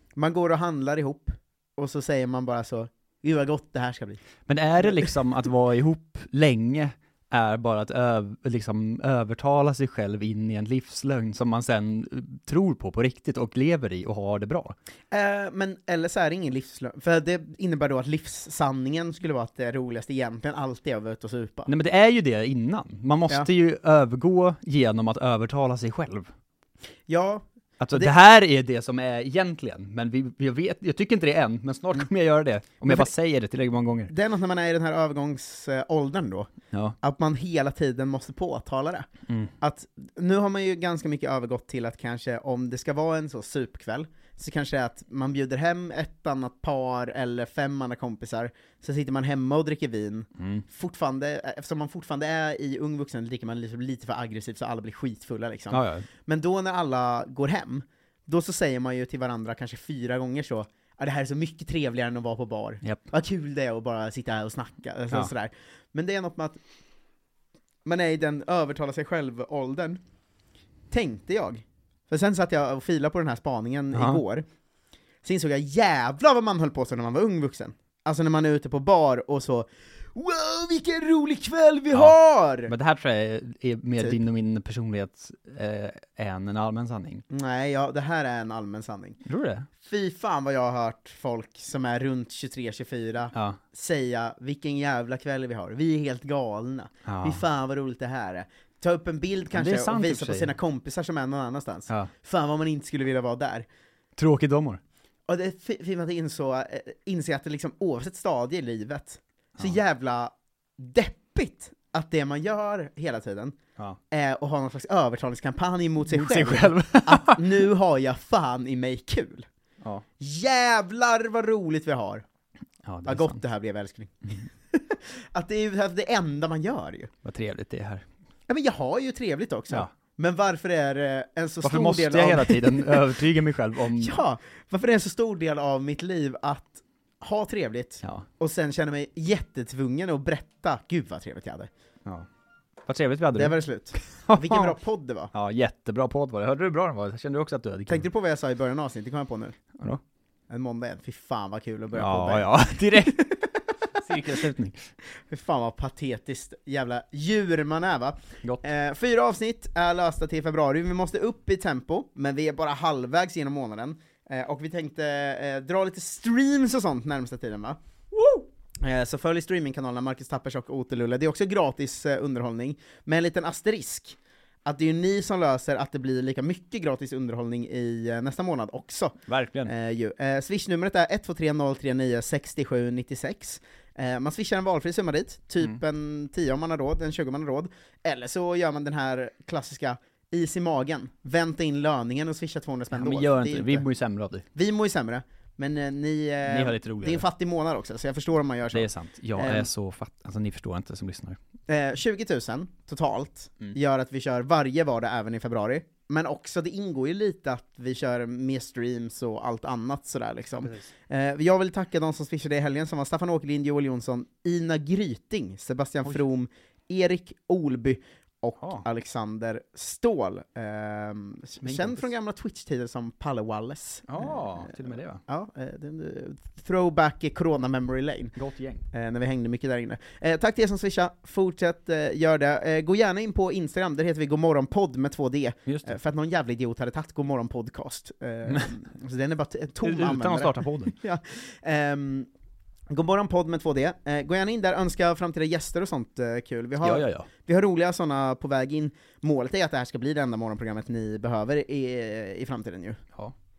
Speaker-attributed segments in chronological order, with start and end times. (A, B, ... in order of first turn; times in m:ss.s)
0:00.2-0:04.2 A
0:04.5-0:14.7 B
0:15.1-0:21.7 A
0:21.7-0:26.3 B
0:27.1-0:28.1 A
0:27.8-0:34.1 B
0:34.1-0:36.5 A
0:37.0-0:39.1 A
0:39.6-1:06.6 A
0:50.4-0:50.6 B
0:55.7-0:56.0 B
1:07.8-1:10.0 A
1:10.9-1:14.4 A
1:13.9-1:14.2 B
1:15.2-1:22.7 A
1:21.9-1:27.2 B
1:27.3-1:29.2 A
1:29.2-1:29.7 B
1:29.8-1:43.6 A
1:37.0-1:37.4 B
1:39.5-1:40.6 B
1:44.2-1:44.8 B
1:45.2-1:53.6 A
1:54.1-1:59.4 A
1:56.1-1:57.5 B
2:00.2-2:02.2 A
2:02.8-2:03.4 B
2:03.0-2:07.1 A
2:07.2-2:08.0 B
2:08.5-2:13.0 A
2:11.6-2:14.2 B
2:13.9-2:21.7 A
2:22.9-2:23.6 B
2:23.3-2:25.3 A
2:24.3-2:24.8 B
2:25.3-2:28.0 B
2:27.9-2:29.6 A
2:30.5-2:33.4 A
2:31.9-2:33.4 B
2:34.0-2:34.8 B
2:35.3-3:13.8 A
2:59.3-2:59.7 B
3:12.9-3:14.4 B
3:14.5-3:19.7 A
3:16.4-3:17.2 B
3:18.7-3:21.4 B
3:21.7-3:44.8 A
3:30.6-3:30.8 B
3:41.6-3:42.1 B
3:44.1-3:45.2 B
3:45.3-3:48.4 A
3:48.4-3:48.8 B
3:48.9-4:02.3 A
3:59.8-4:00.9 B
4:02.9-4:13.0 A
4:06.8-4:07.3 B